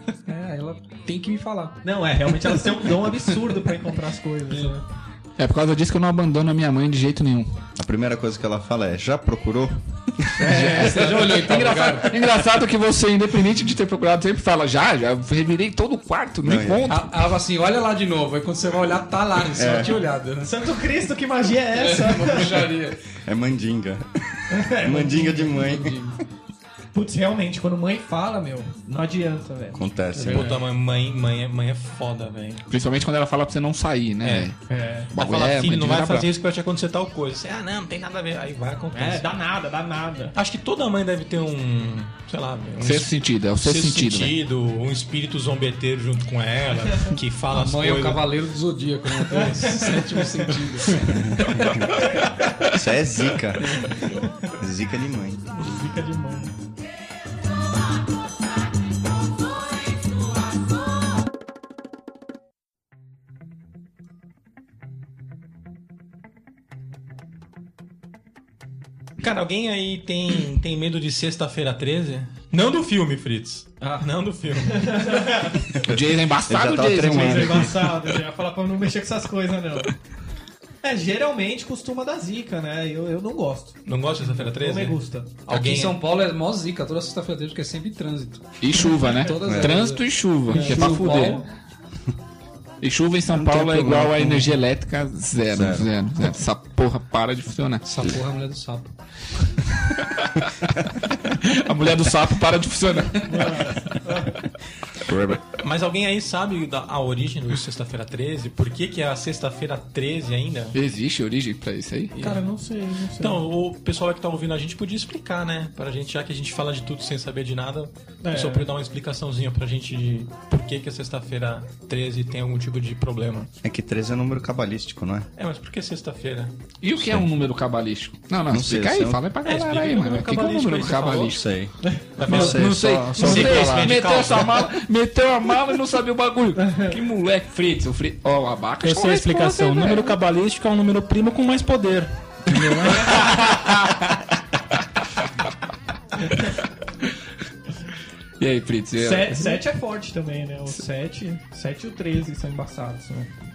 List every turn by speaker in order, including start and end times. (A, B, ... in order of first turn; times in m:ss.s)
0:00.3-0:01.8 A
0:01.8-0:04.8 B
0:04.5-0:04.8 A
0:05.4-0:07.6 C
0:07.8-0:11.0 D
0:10.4-0:12.1 A
0:10.4-0:17.2 C
0:16.4-0:16.9 D
0:16.9-0:20.5 A
0:19.5-0:20.0 D
0:20.4-0:22.7 B
0:21.7-0:23.0 A
0:23.2-0:26.1 D
0:24.5-0:25.6 B
0:25.5-0:26.2 A
0:26.9-0:30.5 B
0:29.7-0:30.5 D
0:30.1-0:30.5 A
0:30.3-0:32.6 E
0:32.7-0:34.6 C
0:34.2-0:34.5 E
0:34.7-0:35.1 B
0:35.1-0:36.3 C
0:35.1-0:39.3 E
0:38.9-0:40.3 B
0:40.3-0:48.3 E
0:42.8-0:44.4 C
0:47.5-0:51.0 A
0:49.3-0:50.2 B
0:51.2-0:51.9 D
0:52.7-0:53.8 D
0:53.7-0:54.5 B
0:54.6-0:55.5 D
0:55.5-0:56.5 B
1:09.2-1:15.4 E
1:13.8-1:15.6 B
1:15.8-1:17.7 C
1:16.5-1:17.8 D
1:17.0-1:19.9 B
1:20.8-1:25.3 B
1:23.8-1:26.0 E
1:25.5-1:31.4 A
1:28.6-1:31.4 C
1:29.4-1:29.7 D
1:30.5-1:31.4 B
1:32.8-1:37.8 C
1:33.3-1:34.6 D
1:35.5-1:35.9 D
1:37.8-1:38.9 A
1:41.4-1:43.4 C
1:43.2-1:44.4 B
1:45.0-1:45.4 D
1:45.6-1:50.7 E
1:50.7-1:52.1 C
1:52.1-1:52.4 E
1:52.1-1:53.4 B
1:53.2-2:03.5 E
1:58.2-1:58.7 B
2:03.6-2:05.3 D
2:05.4-2:06.6 E
2:06.8-2:11.4 C
2:07.0-2:07.3 D
2:08.5-2:09.2 D
2:09.4-2:11.4 E
2:11.3-2:14.0 D
2:12.2-2:14.7 E
2:12.3-2:20.2 C
2:18.8-2:23.4 F
2:23.3-2:24.0 C
2:28.4-2:29.6 C
2:28.9-2:33.3 B